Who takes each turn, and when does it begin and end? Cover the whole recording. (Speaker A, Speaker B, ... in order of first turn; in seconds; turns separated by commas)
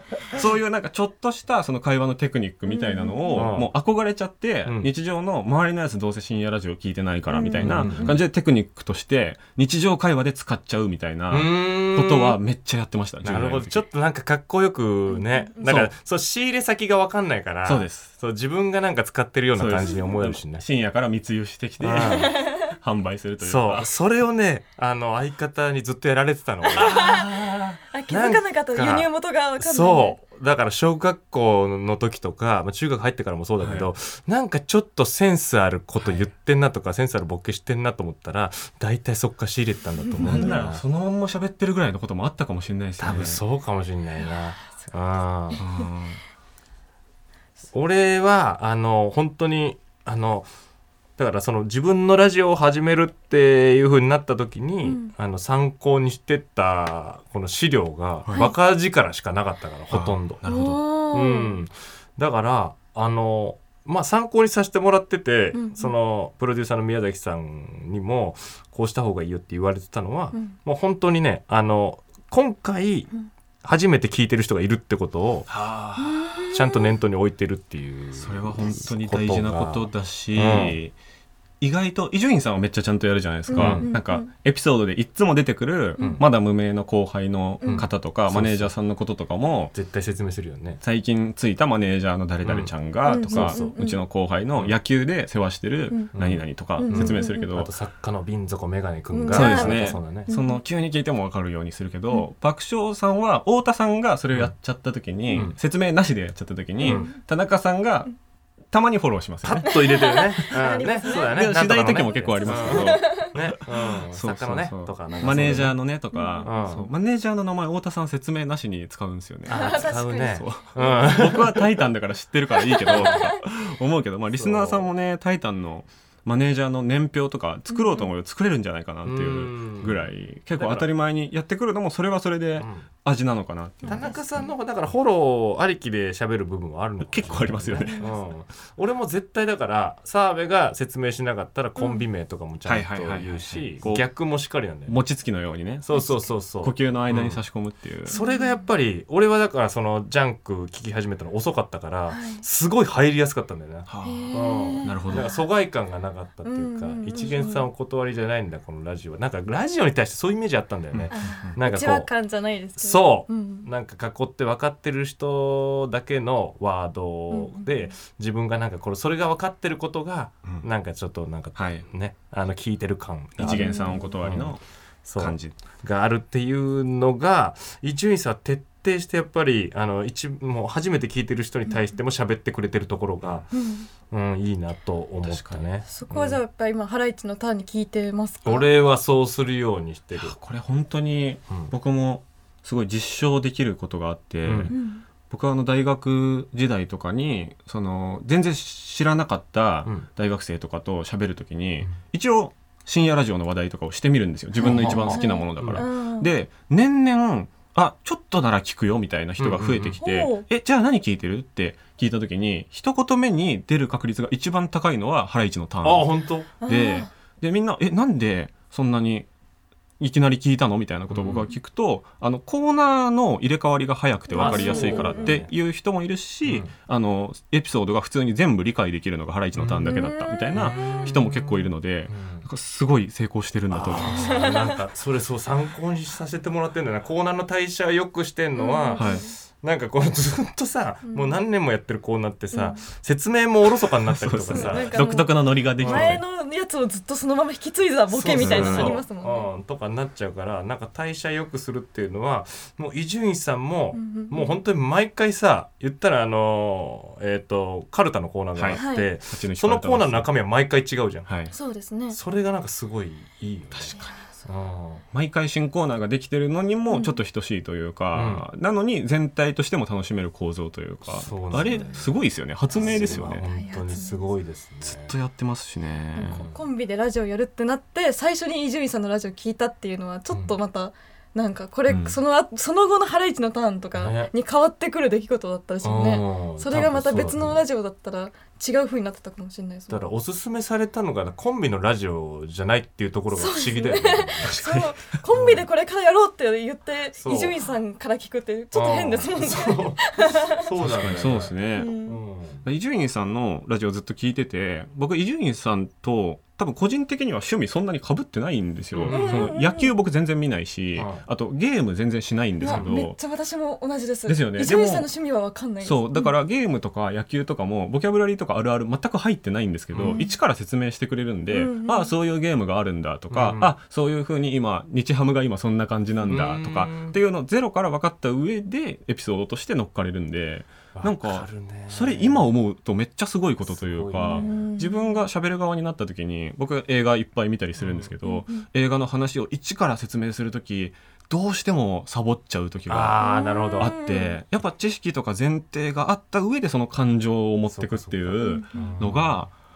Speaker A: 0.3-13.8, Speaker B: 2.7-3.5, Speaker C: 3.3-3.7, Speaker C: 4.6-4.9, Speaker B: 7.3-8.2, Speaker C: 7.6-8.2, Speaker C: 11.3-12.4, Speaker C: 13.2-20.6, Speaker B: 15.1-15.7, Speaker A: 15.6-15.9, Speaker A: 17.6-18.1, Speaker A: 19.5-23.9, Speaker C: 21.8-22.4, Speaker B: 22.2-22.6, Speaker C: 23.4-27.2, Speaker B: 26.7-27.3, Speaker A: 26.8-27.8, Speaker B: 27.9-30.2, Speaker C: 28.1-40.8, Speaker A: 33.6-33.9, Speaker A: 40.2-43.4, Speaker C: 43.0-45.6, Speaker B: 45.5-45.8, Speaker A: 45.6-46.2, Speaker C: 47.7-50.5, Speaker C: 51.2-60.5, Speaker B: 54.8-55.1, Speaker A: 59.9-60.8, Speaker B: 60.4-61.6, Speaker C: 61.1-73.1, Speaker B: 65.5-65.9, Speaker C: 73.6-75.5, Speaker A: 75.5-76.3, Speaker B: 76.0-76.9, Speaker C: 76.5-80.8, Speaker A: 78.2-80.9, Speaker A: 81.6-89.7, Speaker B: 83.5-84.3, Speaker C: 83.5-83.9, Speaker B: 86.0-86.2, Speaker B: 87.6-87.9, Speaker C: 87.6-88.7, Speaker C: 89.7-90.8, Speaker A: 90.8-97.7, Speaker C: 92.4-92.7, Speaker B: 93.0-94.0, Speaker C: 93.3-93.8, Speaker C: 96.1-100.3, Speaker B: 96.8-97.5, Speaker B: 99.1-100.6, Speaker A: 99.3-108.1, Speaker C: 105.3-105.5, Speaker C: 106.8-107.1, Speaker B: 106.8-107.1, Speaker A: 108.7-110.1, Speaker C: 109.4-115.8, Speaker B: 109.6-111.4, Speaker A: 111.0-113.6, Speaker B: 112.3-113.3, Speaker A: 114.1-134.2, Speaker B: 116.1-116.7, Speaker C: 116.4-116.9, Speaker C: 119.5-121.7, Speaker B: 119.5-121.4, Speaker B: 122.6-123.4, Speaker C: 124.3-124.9, Speaker B: 127.7-128.1, Speaker C: 129.0-130.9, Speaker C: 132.6-132.9, Speaker B: 133.8-134.5, Speaker C: 133.9-145.0, Speaker A: 137.0-138.0, Speaker B: 137.8-138.2, Speaker B: 141.8-142.0, Speaker A: 142.6-144.1, Speaker A: 144.9-148.1, Speaker C: 145.8-147.4, Speaker B: 145.9-146.3, Speaker C: 148.1-162.1, Speaker B: 148.1-148.6, Speaker B: 152.1-152.4, Speaker A: 153.9-155.3, Speaker B: 154.0-155.5, Speaker B: 156.4-157.7, Speaker A: 160.9-161.6, Speaker B: 161.1-163.7, Speaker C: 162.8-183.5, Speaker B: 167.3-167.9, Speaker A: 171.5-171.8, Speaker A: 173.4-175.5, Speaker B: 173.4-174.1, Speaker B: 183.5-183.9, Speaker C: 184.0-186.4, Speaker A: 185.2-185.6, Speaker B: 185.9-188.7, Speaker C: 188.4-190.3, Speaker A: 190.2-219.3, Speaker C: 194.4-194.7, Speaker B: 194.7-195.0, Speaker B: 204.6-206.3, Speaker C: 204.6-205.8, Speaker C: 209.4-210.0, Speaker B: 210.0-210.4, Speaker C: 215.8-216.5, Speaker B: 216.6-217.1, Speaker A: 220.0-234.4, Speaker C: 221.1-221.5, Speaker B: 224.3-225.4, Speaker C: 224.3-225.5, Speaker C: 226.4-226.7, Speaker C: 229.6-229.9, Speaker B: 229.8-231.2, Speaker C: 230.5-232.4, Speaker C: 233.7-245.1, Speaker B: 233.9-234.7, Speaker B: 238.5-239.3, Speaker A: 239.0-239.2, Speaker B: 241.1-241.4, Speaker B: 242.5-242.8, Speaker A: 244.1-246.2, Speaker B: 244.5-249.5, Speaker C: 245.8-246.2, Speaker C: 248.1-261.3, Speaker A: 248.3-249.0, Speaker B: 253.9-254.6, Speaker A: 258.6-260.3, Speaker B: 258.7-259.1, Speaker A: 261.3-261.5, Speaker B: 261.5-262.2, Speaker C: 262.1-265.0, Speaker A: 263.7-264.2, Speaker B: 263.9-264.2, Speaker A: 265.1-273.4, Speaker B: 266.9-267.2, Speaker C: 268.1-268.4, Speaker C: 271.1-275.1, Speaker B: 272.7-274.3, Speaker A: 274.8-276.4, Speaker B: 276.1-290.0, Speaker C: 276.3-276.6, Speaker A: 281.9-282.2, Speaker C: 284.0-284.3, Speaker C: 285.8-287.6, Speaker C: 289.9-294.5, Speaker B: 293.3-300.6, Speaker A: 294.4-295.1, Speaker C: 295.3-295.6, Speaker C: 297.2-297.6, Speaker C: 298.7-302.6, Speaker A: 300.8-301.9, Speaker B: 301.8-302.2, Speaker A: 302.6-313.2, Speaker C: 308.9-309.5, Speaker B: 309.1-309.9, Speaker C: 310.9-311.2, Speaker B: 312.6-316.3, Speaker C: 312.6-312.9, Speaker A: 314.2-315.1, Speaker A: 315.8-343.2, Speaker C: 319.9-320.2, Speaker B: 320.0-320.3, Speaker B: 321.5-322.1, Speaker C: 323.3-323.7, Speaker C: 326.2-327.2, Speaker C: 330.9-332.5, Speaker C: 333.6-334.5, Speaker B: 334.2-335.2, Speaker C: 337.8-338.1, Speaker B: 338.2-338.6, Speaker C: 342.9-343.9, Speaker B: 343.2-344.4, Speaker A: 343.8-349.5, Speaker C: 347.7-349.4, Speaker B: 348.4-349.0